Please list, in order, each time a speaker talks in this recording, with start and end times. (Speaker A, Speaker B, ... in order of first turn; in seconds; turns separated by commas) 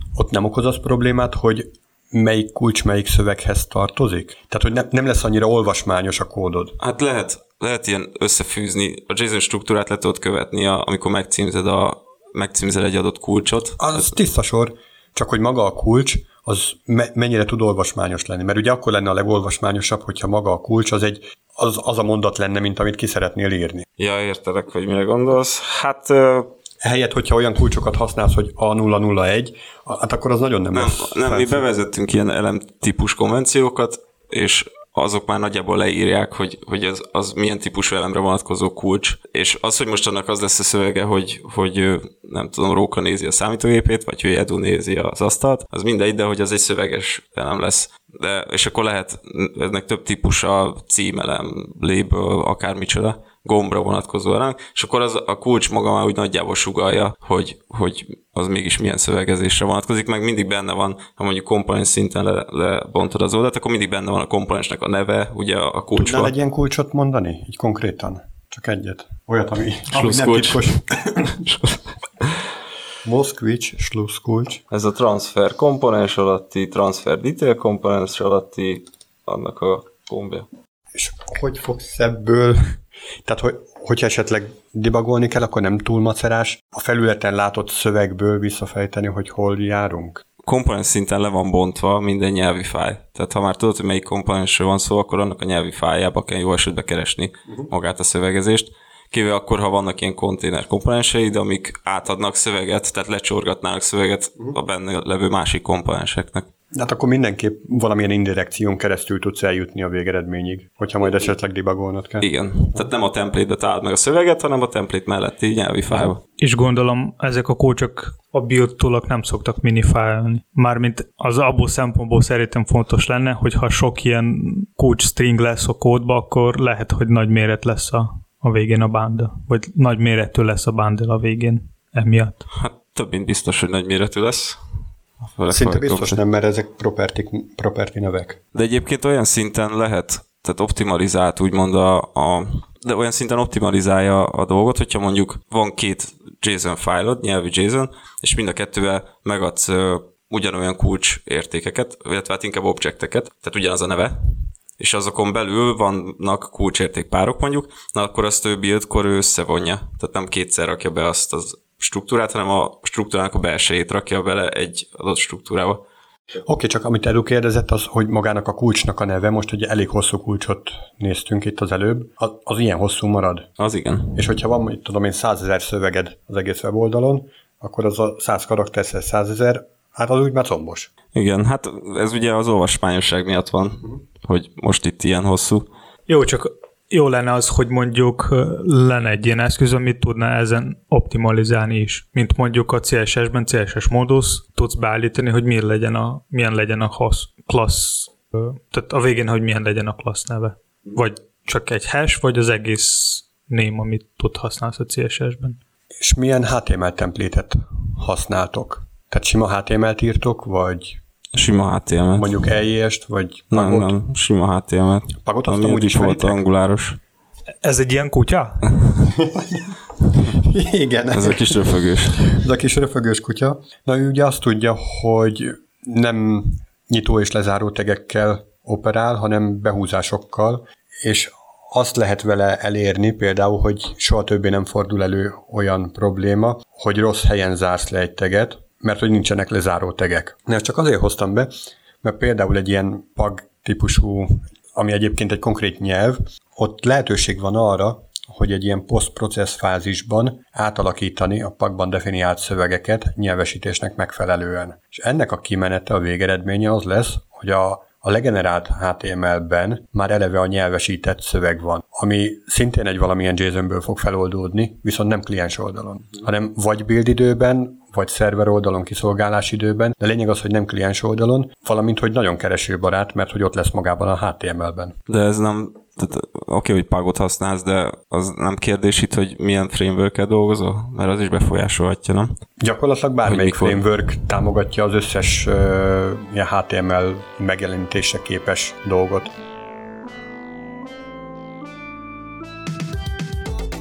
Speaker A: 0.1-6.8, Speaker B: 6.8-14.0, Speaker A: 13.8-23.9, Speaker B: 24.0-26.5, Speaker A: 26.8-31.6, Speaker B: 30.7-66.3, Speaker A: 65.9-71.4, Speaker B: 69.9-72.3, Speaker A: 73.0-74.6, Speaker B: 74.7-80.5, Speaker A: 80.9-90.2, Speaker B: 90.4-106.5, Speaker A: 106.7-112.9, Speaker B: 112.2-116.2, Speaker C: 116.4-132.4, Speaker B: 132.5-134.6, Speaker B: 135.3-136.2, Speaker A: 135.5-138.4, Speaker B: 138.5-154.1, Speaker B: 154.8-165.8, Speaker A: 166.4-173.5, Speaker B: 173.6-174.3, Speaker A: 174.1-180.9, Speaker B: 181.1-185.7, Speaker C: 186.1-205.6, Speaker A: 206.0-211.0, Speaker B: 211.3-212.4, Speaker A: 212.1-213.9, Speaker B: 213.5-217.0, Speaker A: 215.2-216.4, Speaker C: 217.6-218.7, Speaker A: 219.1-219.7, Speaker A: 220.3-241.5, Speaker B: 221.1-222.3, Speaker A: 242.0-274.9, Speaker B: 275.1-282.3, Speaker A: 282.6-289.3, Speaker B: 283.2-283.8